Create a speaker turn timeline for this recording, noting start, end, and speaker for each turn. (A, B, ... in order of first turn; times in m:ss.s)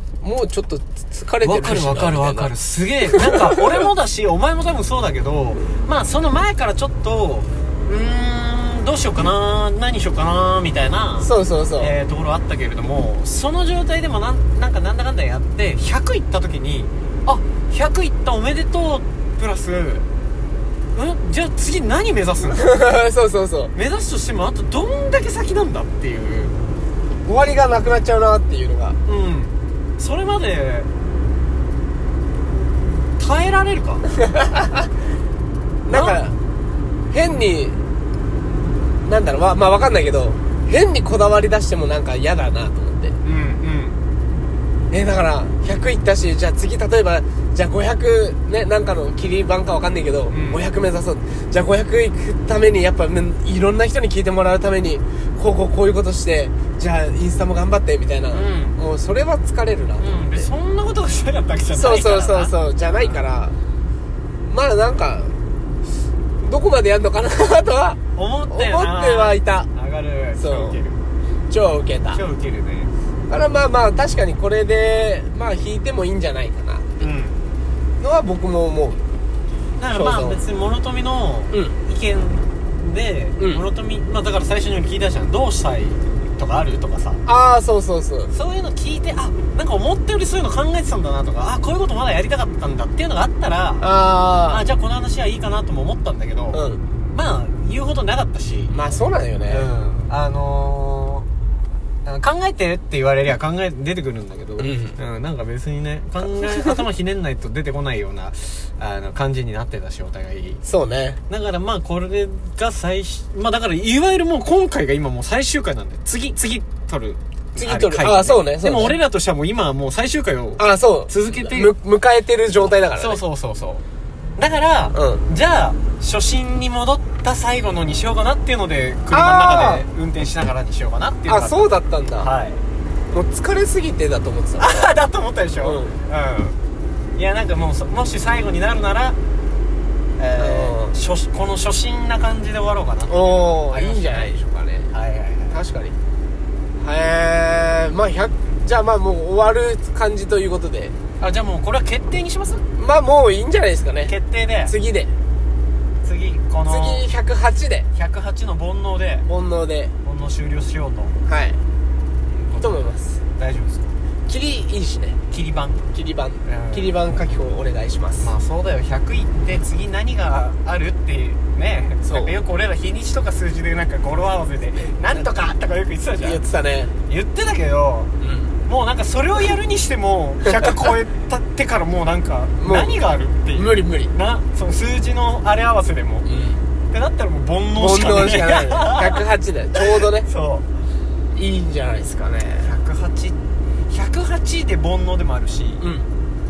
0:00.2-0:02.5 A
0:01.4-0:20.1 B
0:03.1-0:03.5 A
0:11.2-0:11.9 A
0:20.9-0:22.8 B
0:22.5-0:23.7 A
0:23.7-0:26.6 B
0:27.2-0:29.0 A
0:29.0-0:30.9 B
0:33.2-0:34.0 B
0:34.2-0:34.8 A
0:35.9-0:36.3 A
0:35.9-0:36.2 B
0:37.1-0:37.8 A
0:39.1-0:43.2 A
0:43.2-0:44.0 B
0:44.9-1:00.5 A
0:50.3-0:50.6 B
0:58.3-0:58.8 B
1:00.0-1:03.2 B
1:01.7-1:03.6 A
1:04.5-1:05.3 A
1:06.4-1:09.7 A
1:08.2-1:11.0 B
1:10.4-1:10.8 A
1:11.5-1:12.2 A
1:12.1-1:12.9 B
1:13.3-1:17.0 A
1:17.0-1:17.5 B
1:18.0-1:19.0 A
1:19.8-1:27.2 B
1:19.9-1:20.4 A
1:27.2-1:28.3 A
1:28.3-1:33.9 B
1:33.8-1:34.6 A
1:34.5-1:38.9 B
1:36.5-1:36.8 A
1:38.7-1:39.7 A
1:39.4-1:41.3 B
1:42.0-1:50.6 B
1:44.6-1:45.0 A
1:50.6-1:51.2 A
1:51.3-2:01.7 B
1:57.6-1:59.0 A
2:00.6-2:03.2 A
2:03.0-2:03.8 B
2:04.4-2:12.6 B
2:04.9-2:05.2 A
2:09.1-2:09.8 A
2:11.3-2:12.3 A
2:13.1-2:14.9 A
2:14.6-2:16.6 B
2:15.6-2:16.0 A
2:17.2-2:19.2 B
2:20.2-2:24.3 B
2:20.4-2:21.0 A
2:23.1-2:24.9 A
2:24.9-2:25.6 B
2:25.5-2:26.0 A
2:26.8-2:31.0 A
2:31.2-2:32.7 B
2:32.8-2:34.1 A
2:34.0-2:34.7 B
2:34.7-2:35.1 A
2:36.0-2:37.1 B
2:36.7-2:37.9 A
2:37.9-2:39.3 B
2:39.3-2:39.9 A
2:40.0-2:41.2 B
2:41.2-2:41.6 A
2:42.3-2:43.9 B
2:42.6-2:43.2 A
2:44.3-2:45.2 A
2:45.3-2:45.8 B
2:45.9-2:48.3 A
2:46.4-2:47.0 B
2:48.2-2:56.4 B
2:52.0-2:52.3 A
2:56.2-2:56.9 A
2:57.1-2:58.1 B
2:58.2-2:58.6 A
2:58.7-3:06.3 B
3:00.4-3:00.9 A
3:02.6-3:03.0 A
3:03.5-3:04.1 A
3:06.3-3:06.6 A
3:06.9-3:10.7 B
3:07.8-3:10.3 A
3:11.3-3:12.7 A
3:12.6-3:13.4 B
3:13.9-3:15.8 B
3:15.8-3:16.1 A